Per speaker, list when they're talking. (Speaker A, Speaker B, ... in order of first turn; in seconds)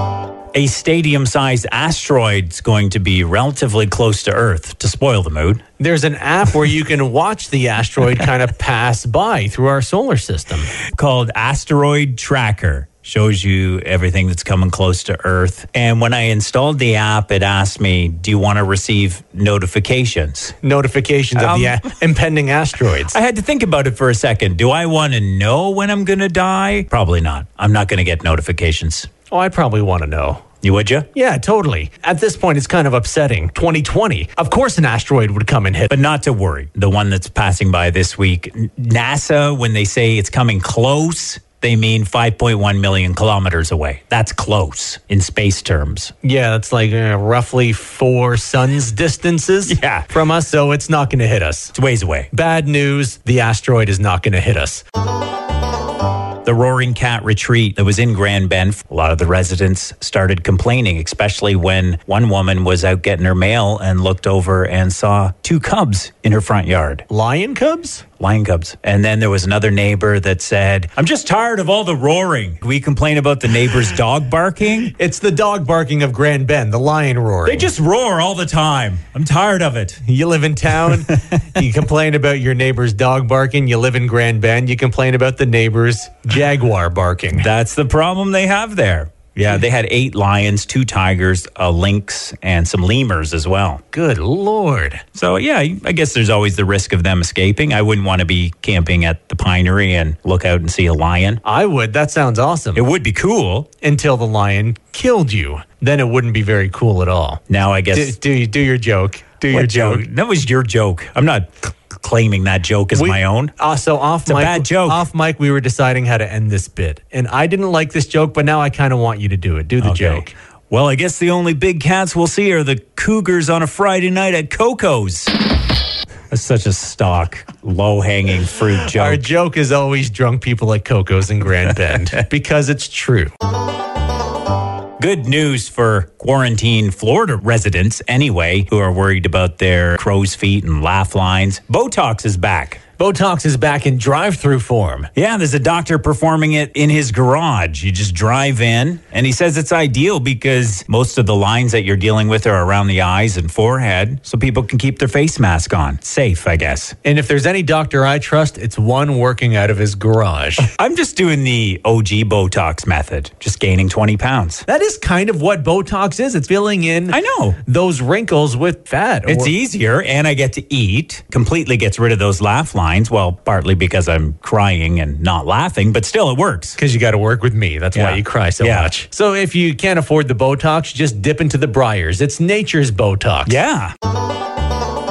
Speaker A: 0.5-5.7, 10.9-20.6, 21.4-21.9, 23.0-29.1, 30.6-31.1, 35.9-46.1, 49.7-50.1, 51.7-52.3, 56.4-67.0, 68.2-74.9, 77.5-80.0, 80.9-81.6, 87.3-93.8, 95.2-101.4, 102.8-103.7, 107.5-108.2, 109.5-113.5, 114.2-115.0, 119.8-125.3, 126.3-129.2, 135.0-142.8, 145.2-157.0, 160.7-164.7, 167.1-167.6, 169.3-176.8, 177.9-178.9, 183.4-183.9
Speaker B: 5.8-10.7, 20.6-23.1, 29.3-30.4, 31.1-35.9, 46.2-51.7, 52.3-54.8, 67.1-68.0, 74.9-77.7, 80.0-87.5, 93.9-95.0, 101.5-102.8, 103.8-107.4, 107.9-110.0, 112.9-120.3, 128.9-133.3, 143.0-145.1, 157.0-160.7, 164.7-169.5, 176.8-183.6